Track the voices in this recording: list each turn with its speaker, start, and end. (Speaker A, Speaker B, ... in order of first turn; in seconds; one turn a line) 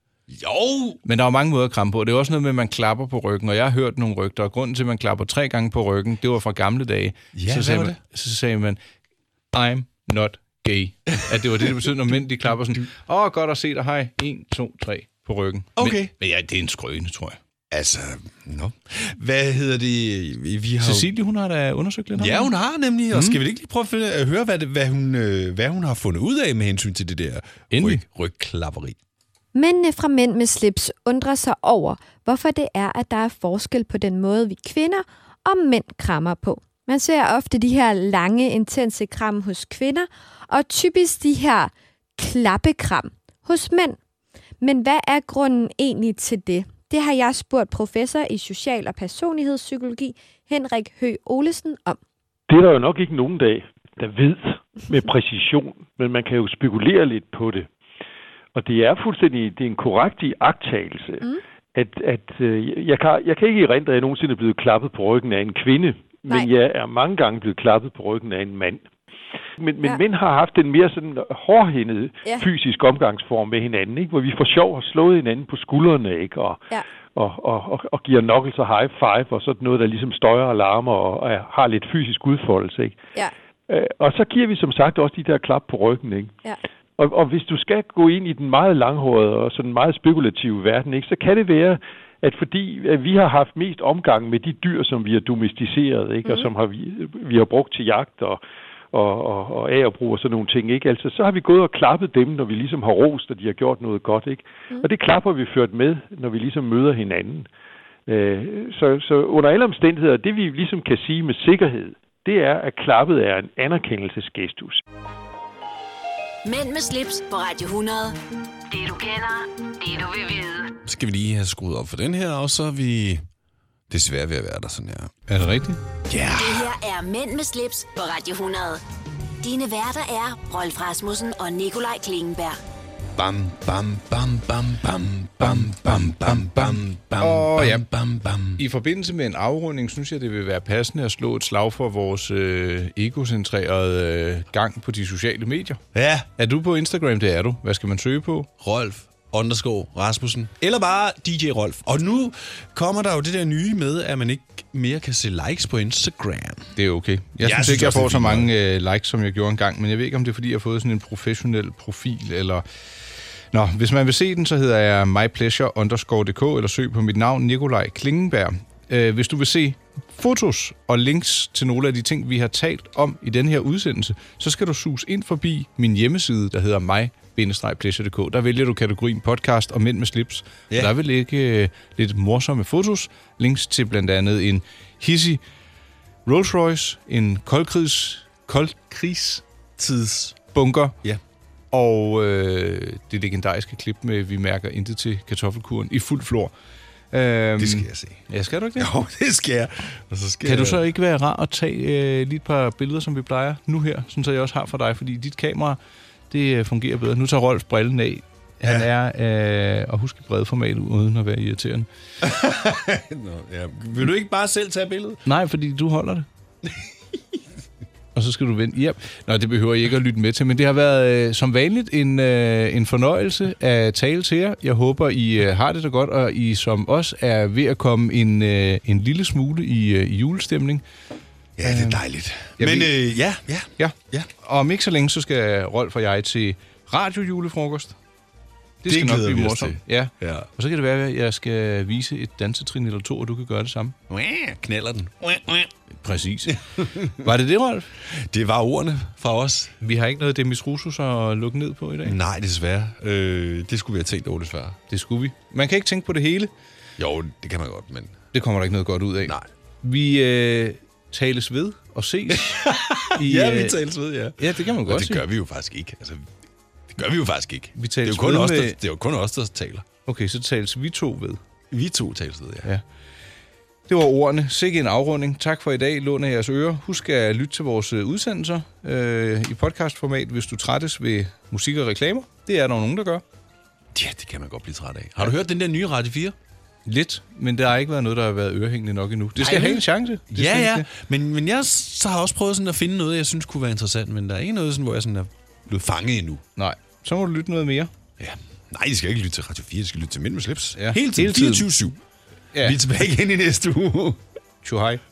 Speaker A: 0.3-1.0
Speaker B: 1.0-8.8
Speaker A: 7.3-8.0
Speaker B: 9.5-17.4
Speaker A: 15.8-16.1
Speaker A: 17.7-21.1
Speaker B: 20.8-22.5
Speaker A: 22.1-29.0
Speaker B: 23.1-23.4
Speaker B: 27.7-28.0
Speaker C: 29.5-44.0
Speaker C: 44.6-52.0
Speaker D: 52.5-57.7
Speaker D: 58.5-68.9
Speaker D: 69.6-76.6
Speaker D: 77.1-83.0
Speaker D: 83.7-86.3
Speaker D: 87.0-98.4
Speaker D: 98.9-107.5
Speaker D: 108.1-114.8
Speaker E: 116.4-118.2
Speaker E: 118.7-120.7
Speaker A: 120.8-123.2
Speaker A: 123.9-125.1
Speaker B: 125.3-125.8
Speaker A: 126.1-126.7
Speaker E: 126.3-128.8
Speaker E: 129.4-132.6
Speaker A: 133.2-138.6
Speaker B: 135.4-137.8
Speaker B: 138.6-145.8
Speaker A: 145.9-146.3
Speaker B: 146.3-148.5
Speaker A: 148.6-156.7
Speaker B: 156.8-162.6
Speaker A: 157.4-158.5
Speaker B: 163.5-185.4
Speaker B: 186.2-189.4
Speaker A: 189.8-190.4
Speaker B: 190.5-190.9
Speaker B: 191.7-196.5
Speaker B: 197.1-198.9
Speaker A: 197.6-198.2
Speaker A: 198.8-200.8
Speaker B: 200.4-205.8
Speaker B: 206.3-211.9
Speaker A: 212.2-215.2
Speaker B: 215.2-216.2
Speaker B: 218.1-230.8
Speaker A: 231.6-234.3
Speaker B: 231.6-232.0
Speaker B: 232.6-232.9
Speaker B: 233.8-237.9
Speaker B: 238.8-243.9
Speaker A: 238.8-240.5
Speaker A: 244.1-245.7
Speaker B: 245.9-247.9
Speaker A: 246.4-247.3
Speaker A: 248.0-249.8
Speaker B: 249.8-252.2
Speaker A: 252.0-254.8
Speaker B: 254.9-256.5
Speaker A: 257.0-258.2
Speaker B: 258.3-263.8
Speaker A: 262.3-266.3
Speaker B: 264.4-265.2
Speaker A: 266.9-269.9
Speaker B: 267.7-268.8
Speaker B: 270.1-271.4
Speaker A: 271.7-272.7
Speaker B: 273.9-283.2
Speaker A: 283.9-286.4
Speaker B: 286.9-290.9
Speaker A: 289.4-296.4
Speaker B: 296.6-297.9
Speaker A: 298.2-302.0
Speaker B: 300.8-301.7
Speaker A: 302.6-304.2
Speaker B: 304.6-305.0